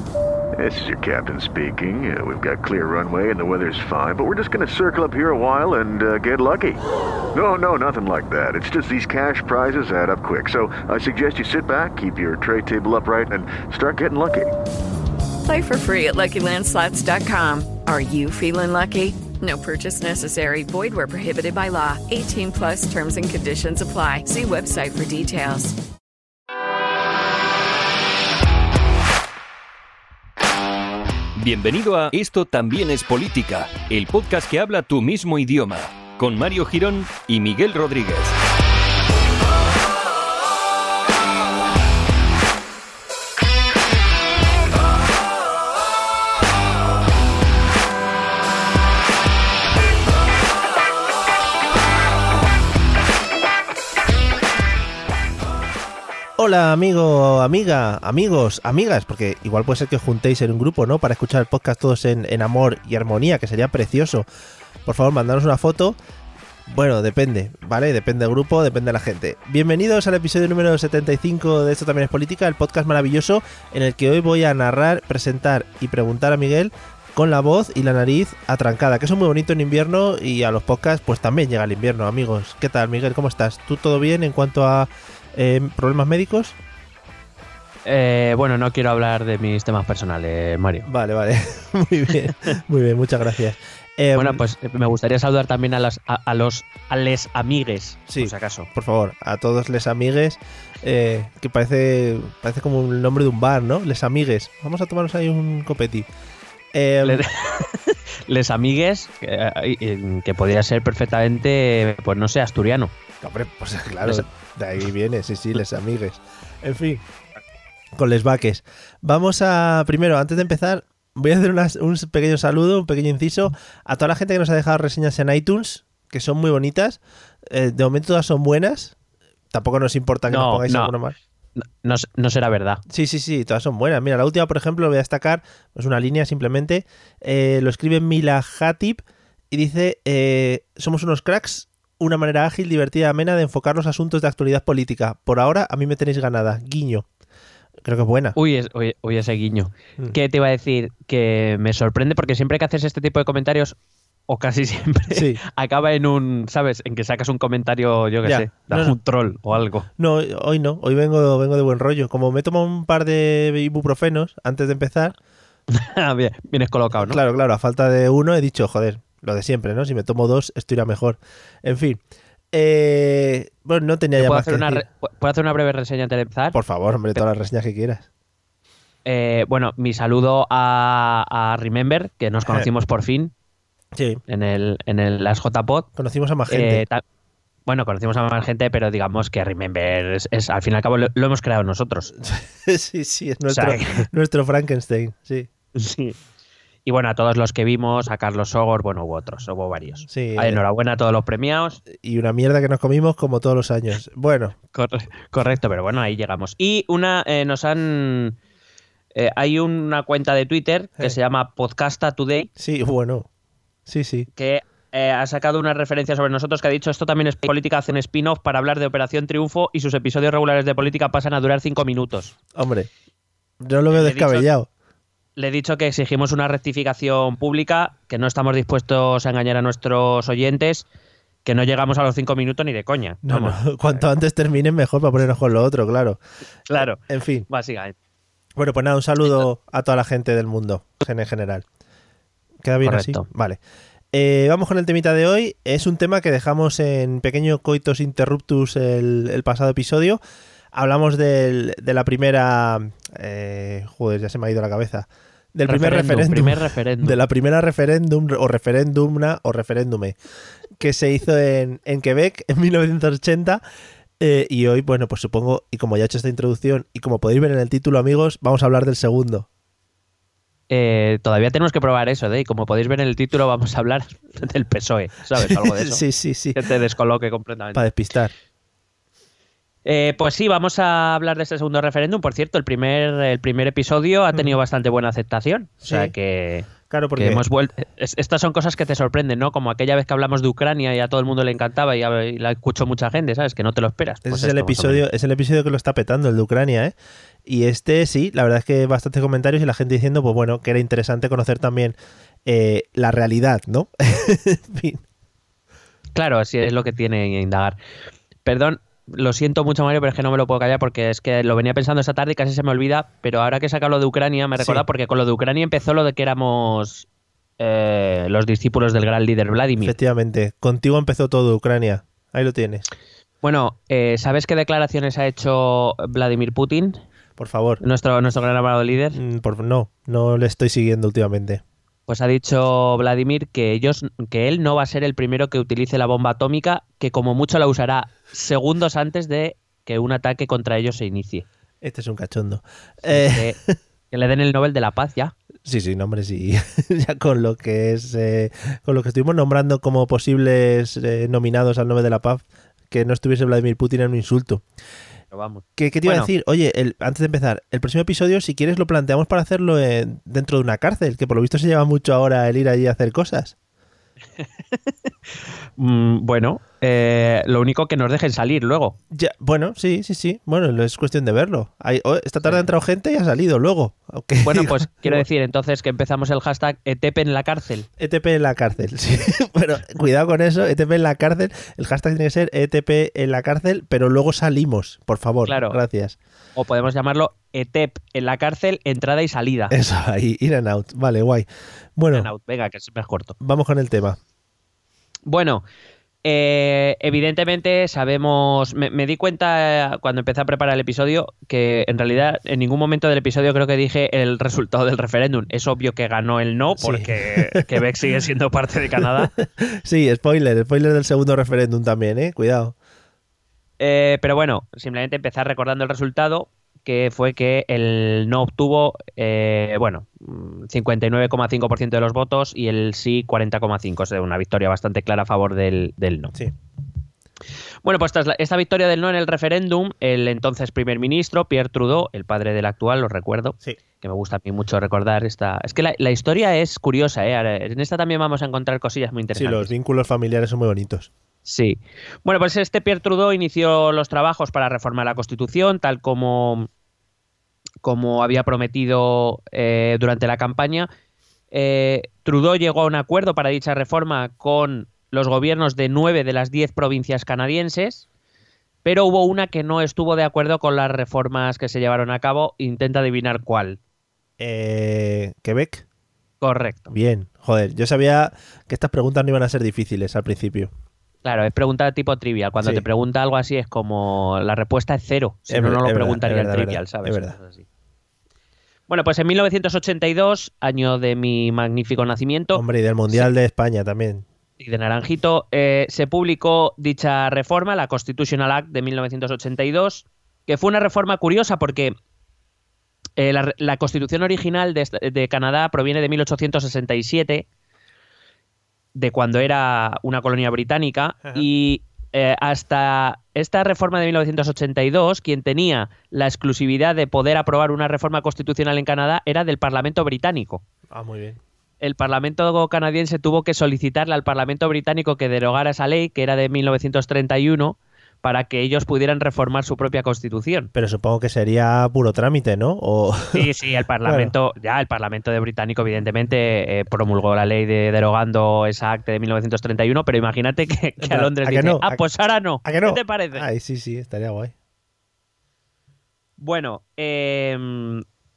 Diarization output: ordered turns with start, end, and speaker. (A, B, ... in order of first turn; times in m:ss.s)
0:00.6-0:06.8 A
0:07.3-0:14.5 A
0:15.4-0:25.8 B
0:31.4-0:38.4 C
0:56.4-1:04.3 D
1:04.8-1:06.0 D
1:06.7-1:26.6 D
1:27.9-1:30.9 E
1:30.9-1:34.4 D
1:34.2-1:38.7 E
1:38.1-1:46.1 D
1:46.7-1:47.3 D
1:47.0-1:52.9 E
1:53.2-1:57.0 D
1:58.0-2:09.0 D
2:09.5-2:11.2 D
2:10.3-2:11.0 E
2:11.6-2:12.8 E
2:12.9-2:27.1 D
2:27.8-2:28.4 D
2:28.4-2:33.8 E
2:34.3-2:39.9 E
2:35.1-2:35.4 D
2:38.2-2:39.0 D
2:40.0-2:45.2 D
2:45.7-2:47.2 E
2:46.9-2:52.0 D
2:52.5-2:54.8 D
2:54.2-2:56.6 E
2:56.5-2:58.1 D
2:59.1-3:03.3 E
3:04.0-3:04.2 D
3:04.3-3:05.9 E
3:06.0-3:06.9 D
3:06.5-3:07.0 E
3:07.7-3:12.1 E
3:12.1-3:15.5 D
3:13.5-3:14.1 E
3:15.8-3:16.2 E
3:16.9-3:21.8 E
3:20.0-3:20.6 D
3:21.9-3:24.6 D
3:24.7-3:28.4 E
3:29.2-3:32.5 E
3:32.6-3:33.3 D
3:33.9-3:34.3 D
3:34.4-3:42.4 E
3:42.5-3:42.9 D
3:43.6-3:44.7 D
3:43.9-3:44.5 E
3:45.4-3:50.9 E
3:51.4-3:54.0 E
3:53.2-3:56.2 D
3:56.7-3:57.9 E
3:56.8-3:57.5 D
3:58.6-4:01.6 D
4:02.6-4:03.6 D
4:02.8-4:03.3 E
4:04.1-4:10.2 D
4:10.7-4:20.2 D
4:15.7-4:17.2 E
4:20.8-4:23.6 D
4:24.2-4:29.5 D
4:30.7-4:36.0 E
4:35.4-4:36.6 D
4:36.6-4:37.9 E
4:37.7-4:38.3 D
4:39.8-4:55.0 E
4:45.8-4:46.1 D
4:46.9-4:47.4 D
4:54.2-5:05.0 D
5:06.2-5:07.8 E
5:08.4-5:17.1 E
5:14.6-5:14.8 D
5:17.6-5:20.0 E
5:19.8-5:22.8 D
5:23.4-5:27.0 E
5:27.4-5:27.8 D
5:27.8-5:29.2 E
5:29.1-5:31.6 D
5:32.1-5:41.5 E
5:41.8-5:43.8 D
5:43.0-5:43.6 E
5:44.1-5:45.3 E
5:45.6-5:54.6 D
5:55.3-5:56.3 E
5:55.8-6:03.6 D
6:04.4-6:04.9 E
6:05.8-6:09.0 E
6:09.1-6:15.2 D
6:14.4-6:17.9 E
6:18.0-6:26.2 D
6:25.5-6:25.8 E
6:26.6-6:29.8 E
6:29.7-6:32.3 D
6:32.1-6:33.4 E
6:33.4-6:34.2 D
6:35.3-6:35.6 E
6:36.2-6:49.3 E
6:46.8-6:47.8 D
6:49.0-6:52.8 D
6:53.8-7:06.4 E
7:07.8-7:19.7 E
7:19.3-7:21.1 D
7:21.4-7:26.7 E
7:27.8-7:30.9 E
7:31.5-7:38.0 E
7:38.8-7:43.8 E
7:44.4-7:45.8 D
7:46.4-7:47.0 E
7:46.9-7:50.7 D
7:51.2-7:57.7 E
7:55.5-7:57.4 D
7:58.9-8:03.3 E
8:02.5-8:04.2 D
8:04.6-8:11.9 E
8:13.2-8:17.5 E
8:19.0-8:30.6 E
8:30.9-8:31.4 D
8:31.8-8:40.7 E
8:40.7-8:43.5 D
8:43.3-8:53.5 E
8:44.0-8:44.3 D
8:51.0-8:52.0 D
8:52.6-8:54.5 D
8:56.4-8:58.0 E